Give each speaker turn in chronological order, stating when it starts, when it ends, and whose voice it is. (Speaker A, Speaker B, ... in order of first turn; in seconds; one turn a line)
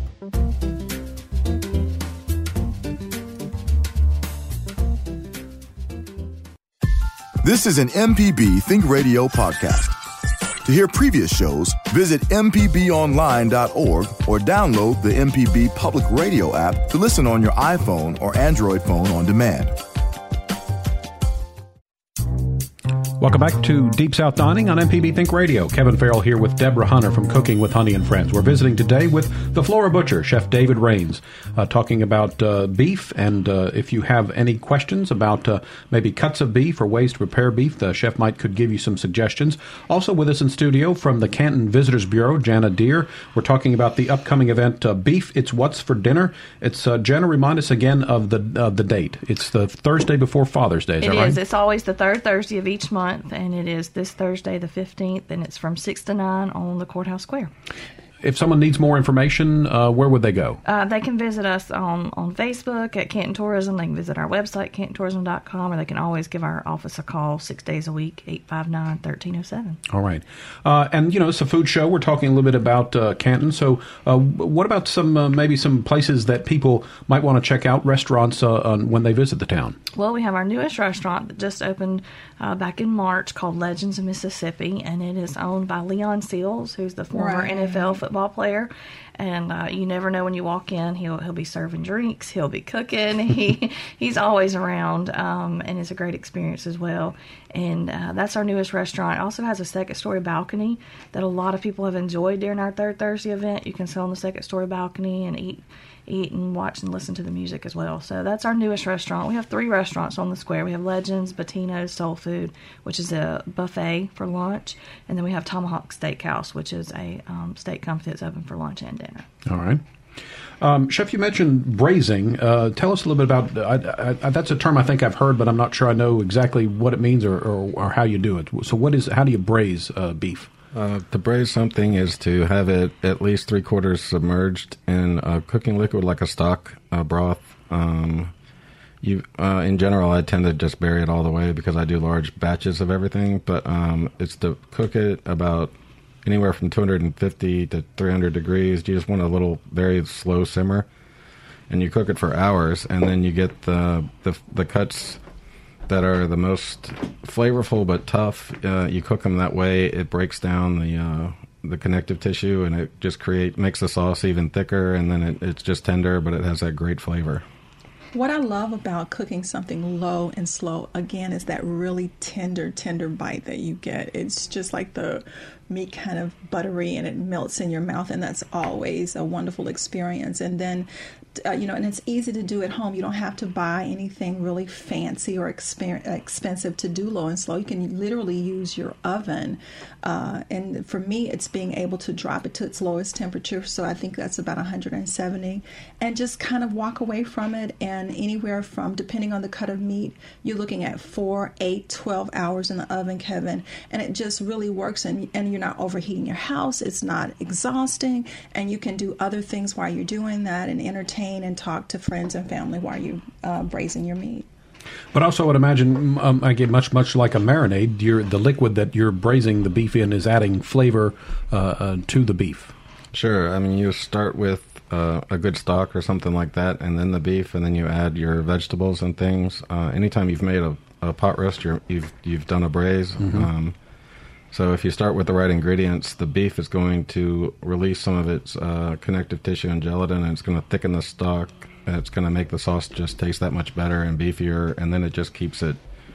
Speaker A: 7.4-9.9
Speaker A: 10.7-19.8
Speaker B: 23.2-51.4
Speaker C: 51.0-57.5
Speaker B: 58.2-60.6
Speaker C: 60.6-69.8
Speaker B: 69.9-79.8
Speaker C: 79.9-119.3
Speaker D: 87.1-88.0
Speaker B: 119.5-119.8
Speaker B: 120.6-130.5
Speaker E: 130.7-138.3
Speaker E: 139.0-145.7
Speaker E: 146.2-150.9
Speaker E: 151.7-155.2
Speaker E: 155.9-167.4
Speaker D: 168.1-214.5
Speaker B: 215.1-222.7
Speaker E: 223.1-233.8
Speaker B: 233.2-233.5
Speaker E: 234.5-245.8